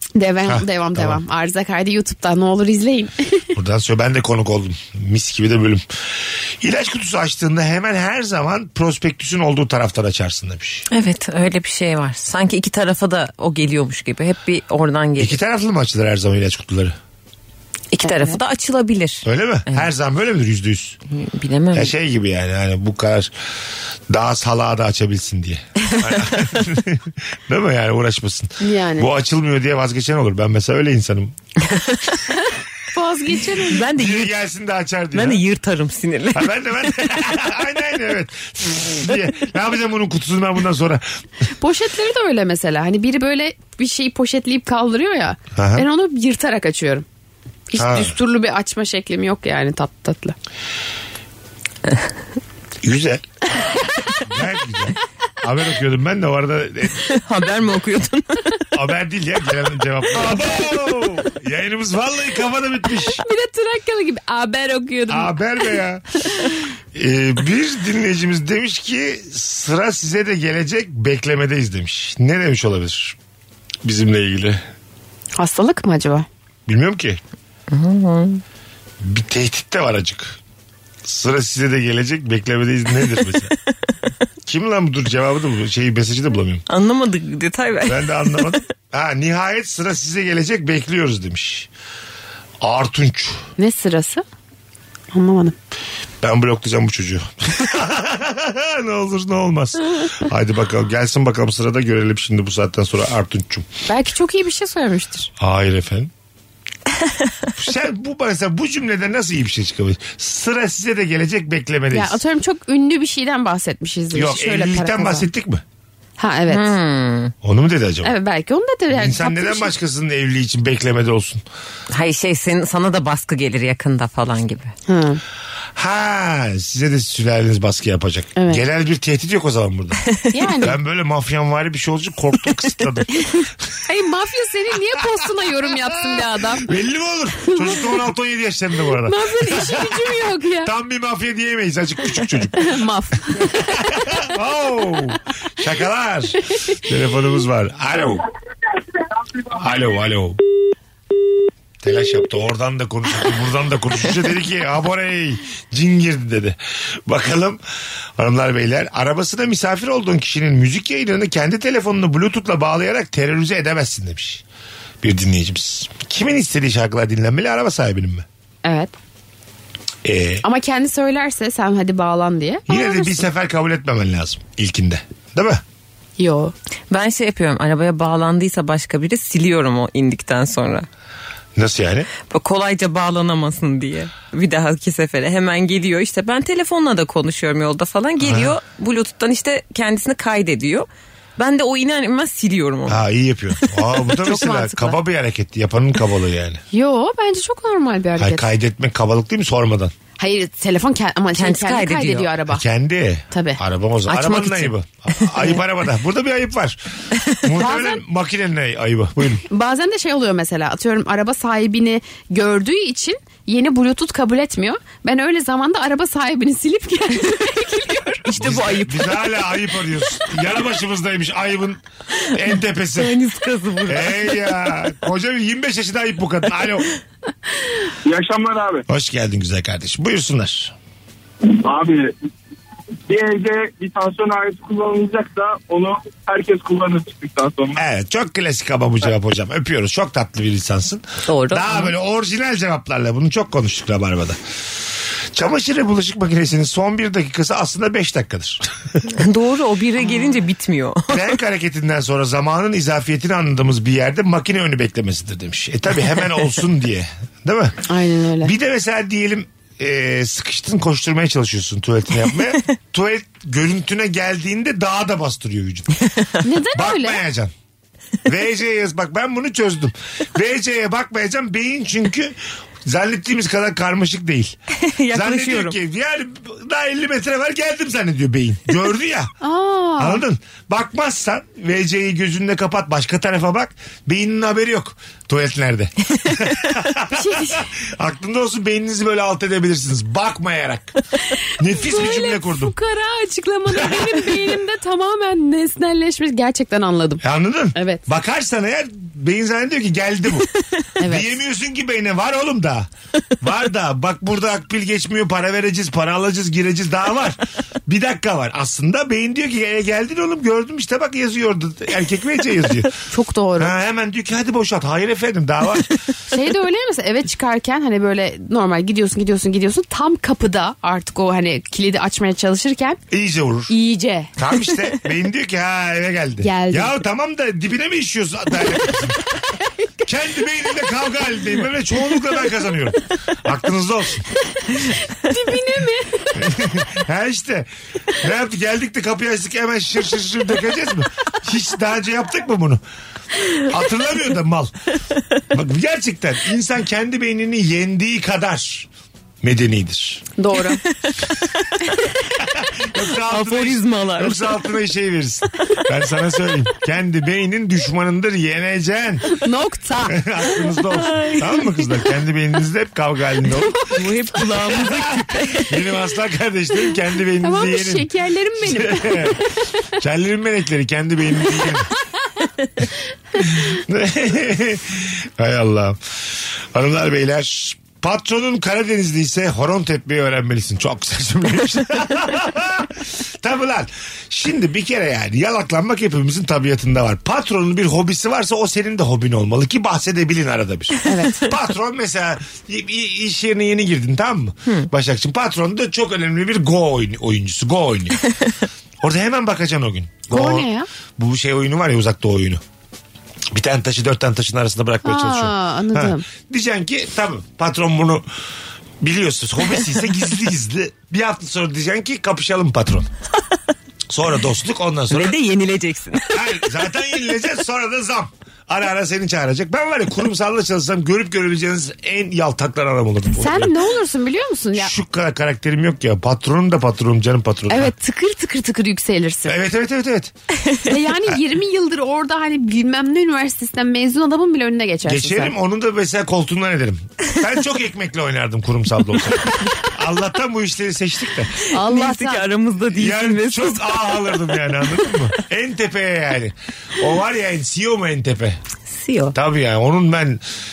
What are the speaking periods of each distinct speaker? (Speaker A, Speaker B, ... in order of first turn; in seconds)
Speaker A: 0.2-3.5, 18.0-18.4, 28.6-29.1, 32.9-33.9, 41.6-47.1, 47.7-50.4, 63.2-65.4, 75.4-76.3, 93.6-94.2, 95.1-95.6, 103.9-105.3, 111.9-115.3, 116.2-116.7, 118.0-119.7, 124.9-125.2, 128.4-128.6, 130.3-130.8, 133.2-136.7, 137.4-137.8, 139.0-140.7, 142.6-144.0, 168.7-168.9, 170.4-173.3, 176.2-176.5, 194.1-195.0, 196.7-198.5, 200.2-202.6, 203.3-203.6, 207.6-208.0, 209.5-218.3, 257.9-258.5, 266.4-267.2, 279.4-280.2, 287.1-287.7, 291.7-297.2, 297.8-298.1, 301.0-301.4, 313.1-313.7, 316.3-323.0, 323.7-324.3, 326.4-327.0, 334.7-336.7, 350.4-350.8, 359.3-360.5, 367.4-369.5, 391.1-391.5, 400.3-400.9, 405.0-406.2, 423.4-424.9, 427.7-429.6, 430.8-435.5, 441.7-442.5
Speaker B: 0.5-1.2, 3.5-10.9, 15.2-16.9, 19.2-21.0, 21.7-23.3, 24.1-31.3, 34.0-35.4, 36.3-41.1, 45.5-45.9, 47.8-48.1, 52.8-53.2, 54.2-57.1, 58.7-63.2, 65.1-66.1, 66.9-73.2, 73.8-74.7, 76.7-77.2, 79.0-80.4, 81.0-83.5, 84.5-86.6, 87.8-91.7, 92.6-93.4, 96.2-103.7, 105.4-106.1, 107.6-112.2, 114.1-115.6, 117.4-118.2, 118.9-121.4, 125.8-130.0, 130.6-133.3, 135.7-142.8, 143.3-148.3, 149.5-150.4, 151.8-157.6, 158.2-164.4, 165.0-168.2, 170.0-170.4, 172.7-175.6, 181.6-182.1, 188.2-188.5, 192.9-196.6, 198.2-199.9, 202.5-206.8, 207.3-209.4, 218.3-221.8, 222.3-223.2, 223.9-226.9, 228.9-230.8, 237.8-244.4, 245.3-249.0, 251.1-257.8, 258.4-266.0, 266.7-267.5, 268.2-274.6, 275.1-279.3, 280.0-291.0, 291.6-292.7, 293.7-294.2, 297.2-300.5, 301.0-302.9, 303.4-312.9, 313.6-316.0, 323.1-323.7, 324.4-329.2, 330.1-334.2, 336.4-342.8, 343.6-344.7, 345.5-348.9, 349.4-350.3, 352.6-359.3, 360.1-363.9, 364.4-369.4, 370.0-371.9, 373.4-398.2, 399.0-402.6, 403.5-408.2, 409.0-413.1, 414.1-415.4, 416.3-423.7, 424.7-427.9, 429.5-430.3, 435.1-441.5, 442.9-448.6, 449.3-450.4
Speaker C: 10.9-15.4, 17.9-19.9, 21.1-21.9, 31.7-32.0, 33.6-34.3, 35.1-37.4, 57.0-58.7, 77.7-78.4, 86.7-88.6, 116.5-117.3, 121.9-124.7, 176.9-180.9, 182.3-193.1, 201.3-202.3, 204.1-204.7, 218.3-219.2, 222.9-224.5, 241.3-241.9, 249.1-251.3, 274.8-275.8, 350.9-352.2, 353.3-354.6, 360.9-361.8, 363.9-365.8, 415.1-416.6, 441.7-444.3, 448.9-449.4
Speaker D: 228.1-228.8, 233.1-237.7